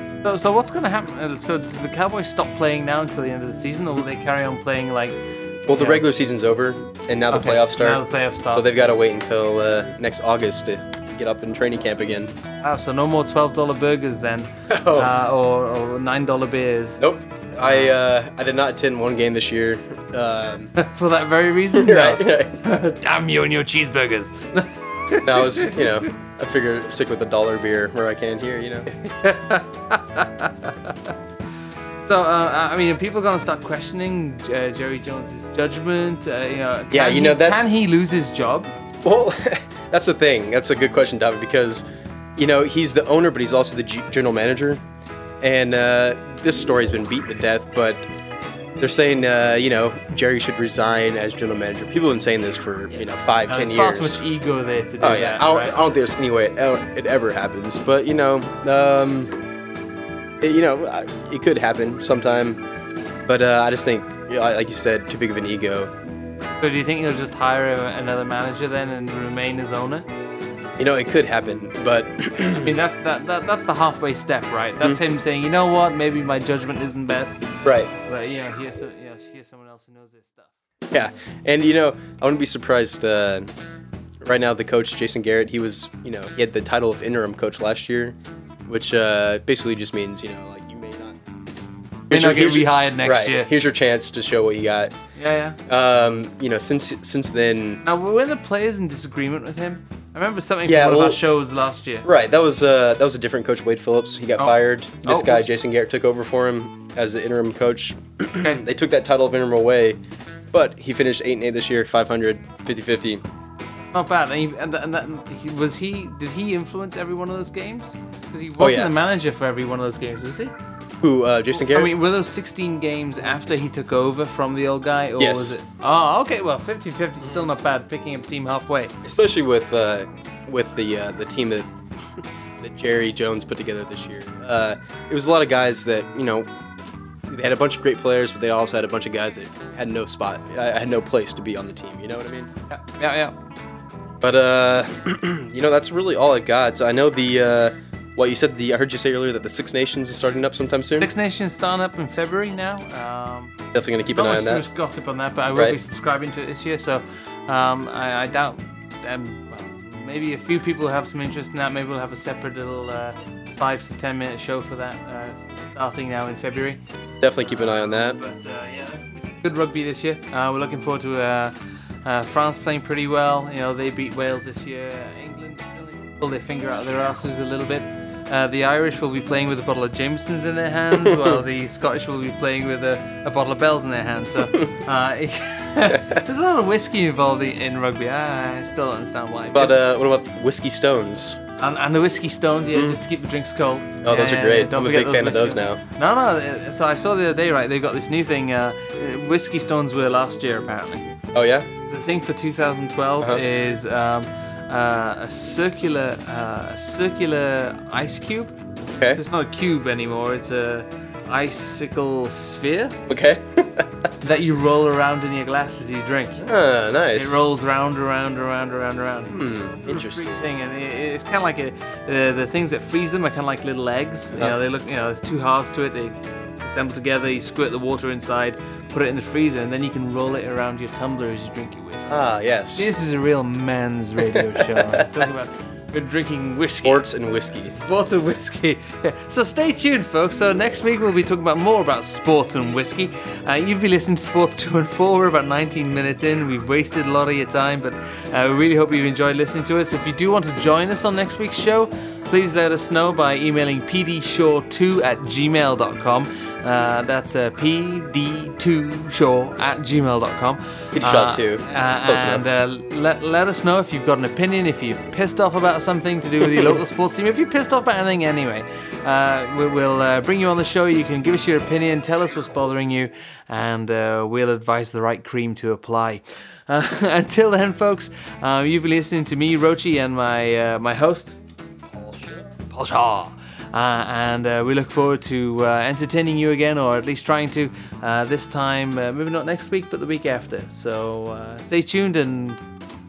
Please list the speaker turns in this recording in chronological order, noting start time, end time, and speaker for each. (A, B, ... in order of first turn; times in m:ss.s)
0:00.2-0:06.0 A
0:05.7-0:12.3 B
0:07.3-0:08.7 A
0:12.6-0:17.0 A
0:14.7-0:15.1 B
0:17.0-0:20.8 B
0:17.6-0:17.9 A
0:20.8-0:26.1 A
0:21.7-0:22.7 B
0:25.2-0:28.9 B
0:28.9-0:31.1 A
0:32.0-0:38.7 A
0:36.9-0:37.7 B
0:39.0-0:41.8 B
0:42.4-0:44.8 B
0:45.4-0:48.1 B
0:48.8-0:54.2 B
0:52.9-0:55.8 A
0:55.0-0:59.4 B
1:00.4-1:02.6 B
1:03.2-1:05.9 B
1:06.6-1:10.1 A
1:10.8-1:12.8 B
1:12.5-1:17.5 A
1:17.6-1:17.9 B
1:18.0-1:20.5 A
1:20.9-1:23.5 B
1:24.2-1:31.2 B
1:32.1-1:34.9 B
1:32.1-1:33.5 A
1:35.2-1:35.6 A
1:35.7-1:37.8 B
1:37.8-1:42.1 A
1:40.6-1:41.2 B
1:42.0-1:50.0 B
1:44.4-1:45.6 A
1:50.5-1:53.2 B
1:53.9-2:00.5 A
1:58.6-1:58.9 B
2:01.0-2:01.9 B
2:01.6-2:08.9 A
2:05.2-2:05.6 B
2:09.0-2:16.5 B
2:17.3-2:22.5 B
2:22.7-2:23.3 A
2:24.2-2:31.1 B
2:31.0-2:33.5 A
2:33.7-2:34.6 B
2:34.1-2:46.8 A
2:47.2-2:48.2 B
2:47.4-3:09.8 A
3:09.5-3:11.4 B
3:11.6-3:21.1 A
3:12.7-3:13.0 B
3:14.0-3:15.8 B
3:21.3-3:21.7 B
3:21.9-3:28.5 A
3:29.1-3:33.0 A
3:33.1-3:33.9 B
3:34.2-3:36.4 A
3:36.4-3:37.5 B
3:37.1-3:57.0 A
3:39.3-3:40.4 B
3:52.1-3:52.9 B
3:54.3-3:55.2 B
3:56.8-3:57.8 B
3:57.6-4:41.4 A
4:21.0-4:22.4 B
4:26.4-4:26.8 B
4:41.9-4:42.6 B
4:42.7-4:52.6 A